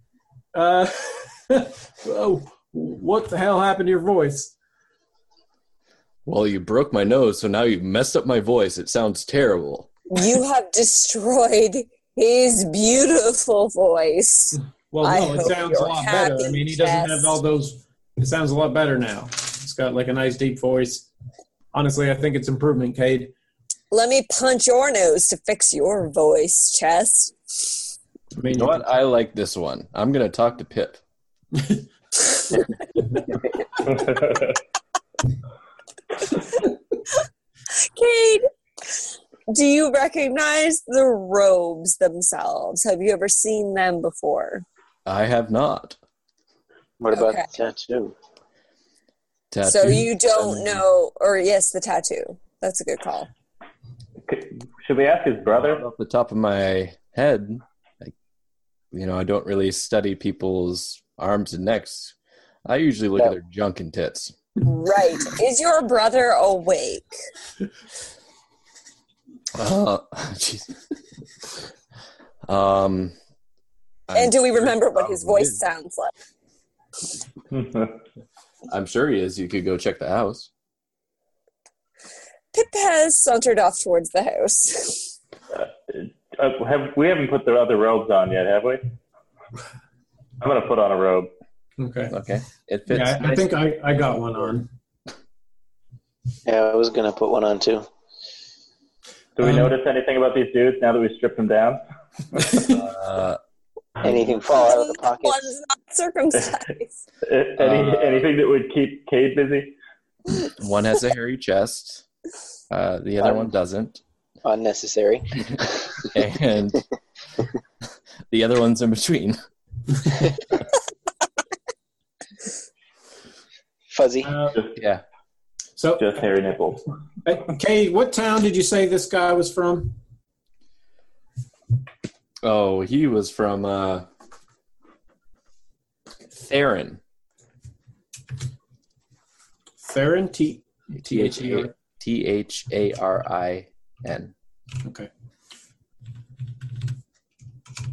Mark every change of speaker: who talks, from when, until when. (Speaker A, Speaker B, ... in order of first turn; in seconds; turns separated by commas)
Speaker A: 0.5-4.5, Speaker B: 6.2-9.9, Speaker C: 10.1-17.4, Speaker A: 14.9-21.1, Speaker A: 21.7-23.3, Speaker C: 23.9-27.7, Speaker A: 28.4-28.8, Speaker B: 28.5-31.0, Speaker A: 31.5-31.8, Speaker D: 33.9-34.5, Speaker C: 37.8-38.5, Speaker C: 39.5-44.6, Speaker B: 45.0-46.0, Speaker E: 47.0-48.1, Speaker C: 47.1-47.5, Speaker B: 49.5-50.8, Speaker C: 49.6-53.3, Speaker D: 54.2-55.8, Speaker B: 55.5-58.1, Speaker B: 58.9-64.3, Speaker C: 64.6-67.1, Speaker B: 69.5-70.8, Speaker B: 72.4-73.1, Speaker B: 74.1-75.6, Speaker C: 74.1-76.1, Speaker D: 77.5-78.0, Speaker B: 78.7-80.5, Speaker C: 82.5-85.1, Speaker D: 85.5-88.9, Speaker D: 90.4-91.3, Speaker A: 91.8-92.2, Speaker B: 92.1-93.6, Speaker A: 92.9-94.7, Speaker E: 96.5-97.8, Speaker D: 99.4-102.5, Speaker A: 99.4-99.7, Speaker A: 102.4-102.7, Speaker B: 102.6-103.4, Speaker E: 104.0-105.5, Speaker C: 104.5-106.9, Speaker D: 107.2-109.8, Speaker B: 107.6-108.3, Speaker B: 110.4-112.0, Speaker B: 112.7-114.0, Speaker E: 113.2-113.5, Speaker E: 114.4-116.1, Speaker B: 116.1-116.8, Speaker B: 118.3-119.4, Speaker E: 123.9-124.3, Speaker A: 124.2-124.6, Speaker B: 124.8-125.0, Speaker A: 125.8-126.2, Speaker D: 126.0-126.9, Speaker A: 127.2-130.0, Speaker B: 132.4-134.1, Speaker B: 136.3-137.0, Speaker A: 139.8-141.7, Speaker B: 141.0-144.3, Speaker A: 144.8-145.1